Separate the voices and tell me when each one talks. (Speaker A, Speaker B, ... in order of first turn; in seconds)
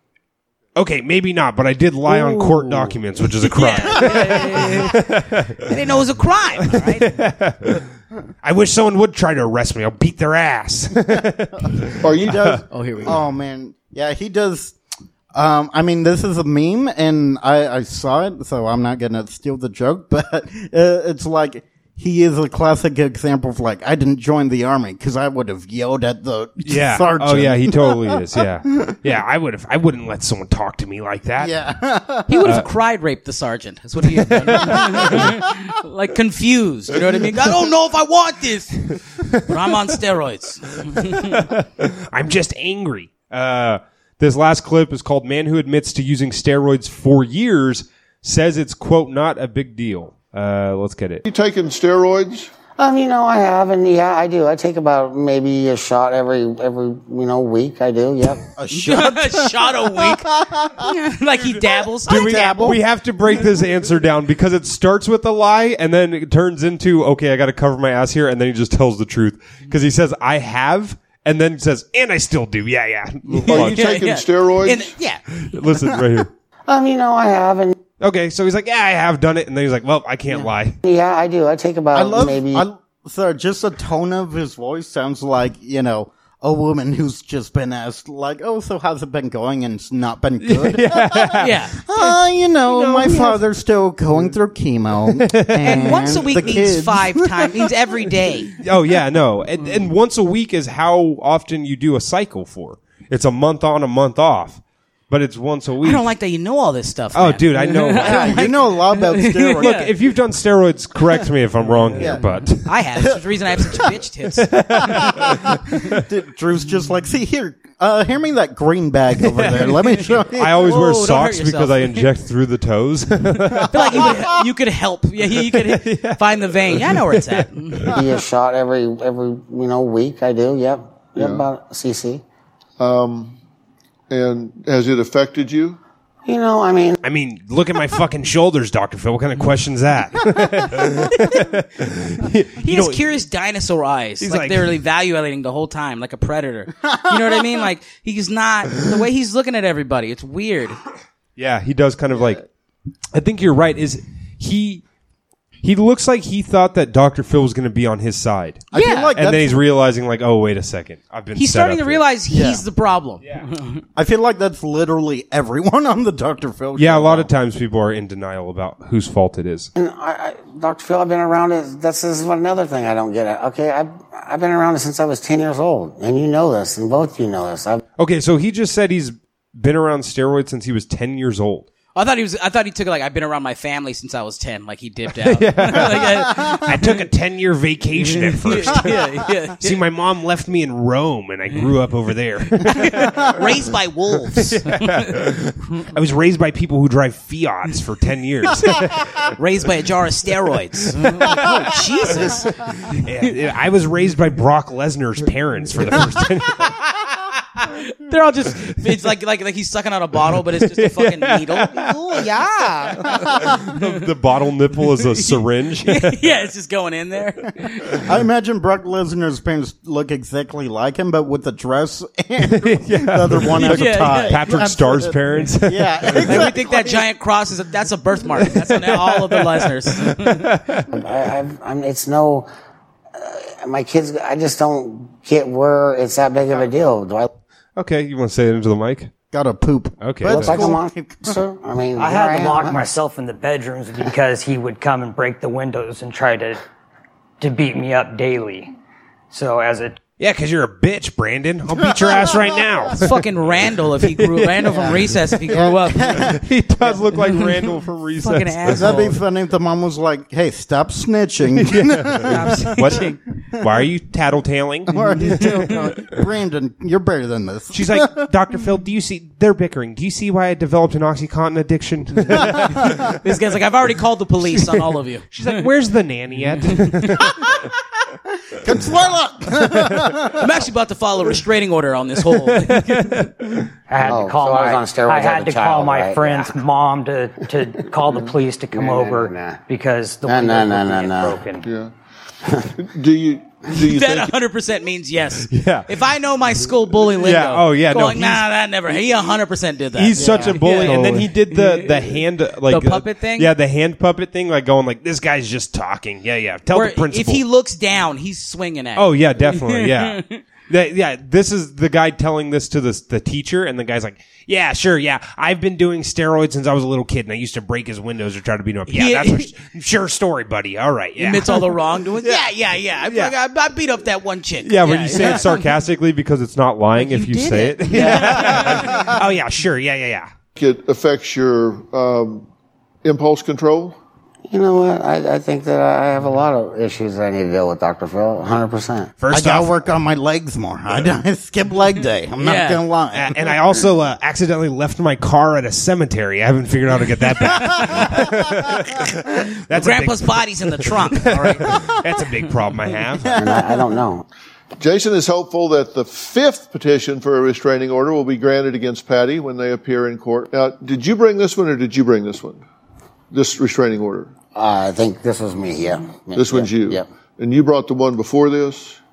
Speaker A: 0.8-5.7, 6.7-7.8, 8.4-12.6, 26.6-31.5, 34.2-35.3, 41.1-51.2, 62.1-73.9, 75.3-76.3, 78.0-80.8, 90.4-91.5, 95.1-96.3, 98.6-106.1, 107.1-108.5, 109.5-112.8, 114.4-115.7, 119.2-124.2, 125.3-128.0, 137.0-143.1, 144.2-144.8, 151.4-152.4, 153.1-154.8, 155.6-162.0, 166.8-169.7, 178.0-181.7, 185.1-193.6, 194.4-199.3, 201.1-207.2, 210.7-211.9, 213.0-216.2, 222.4-226.5, 228.5-230.9, 237.8-239.1, 240.0-240.7, 250.2-255.4, 256.0-259.1, 261.6-266.0, 267.7-273.2, 275.3-277.3, 282.6-283.6, 295.5-295.9, 297.2-298.5, 299.9-307.4, 308.9-323.3, 324.6-330.3, 339.2-339.8, 343.1-353.4
Speaker B: 2.1-2.6, 12.1-14.8, 15.3-28.9, 31.4-32.4, 34.7-35.3, 58.4-60.9, 62.0-62.8, 81.9-97.5, 108.0-109.9, 111.9-112.3, 114.8-120.7, 146.9-147.2, 158.7-159.6, 162.3-162.6, 163.9-167.3, 218.0-227.0, 239.3-241.4, 252.0-252.4, 255.5-256.4, 258.7-263.0, 264.9-268.2, 278.5-280.5, 300.1-301.2, 328.5-328.9, 339.3-343.4, 347.8-348.8, 353.2-353.8
Speaker C: 3.4-5.0, 5.6-7.2, 12.7-13.2, 32.3-41.5, 58.7-62.8, 73.5-75.2, 91.4-91.8, 92.7-93.3, 95.6-98.5, 105.8-109.9, 112.0-114.5, 120.6-122.1, 123.7-127.9, 142.6-150.8, 158.7-159.1, 161.3-163.8, 181.9-186.9, 188.0-189.8, 192.7-195.2, 199.3-203.1, 207.6-213.9, 215.1-218.0, 223.6-224.4, 226.2-230.5, 253.0-256.3, 257.1-257.7, 258.2-259.1, 262.2-263.2, 264.9-265.7, 273.1-275.7, 280.4-283.3, 293.8-303.5, 306.7-310.4, 318.9-319.5, 321.2-325.6, 327.0-329.1, 342.4-342.8, 347.4-348.1, 349.7-351.8
Speaker D: 12.0-12.3, 51.2-52.5, 73.3-74.9, 131.2-131.4, 132.8-133.4, 134.1-135.8, 291.6-291.9, 292.8-294.3, 330.6-332.5, 333.0-334.0, 354.8-362.6, 363.3-364.3, 366.3-369.0
Speaker E: 52.7-58.5, 76.7-77.8, 80.8-82.6, 127.9-132.2, 136.2-137.0, 169.8-177.8, 230.9-232.5, 233.2-237.3, 240.2-242.9, 284.0-286.6, 288.7-289.6, 290.2-291.4, 292.4-292.7, 334.5-339.1, 353.4-354.2, 364.5-367.1
Speaker F: 241.9-246.6, 247.4-248.7, 249.3-250.0, 283.9-291.7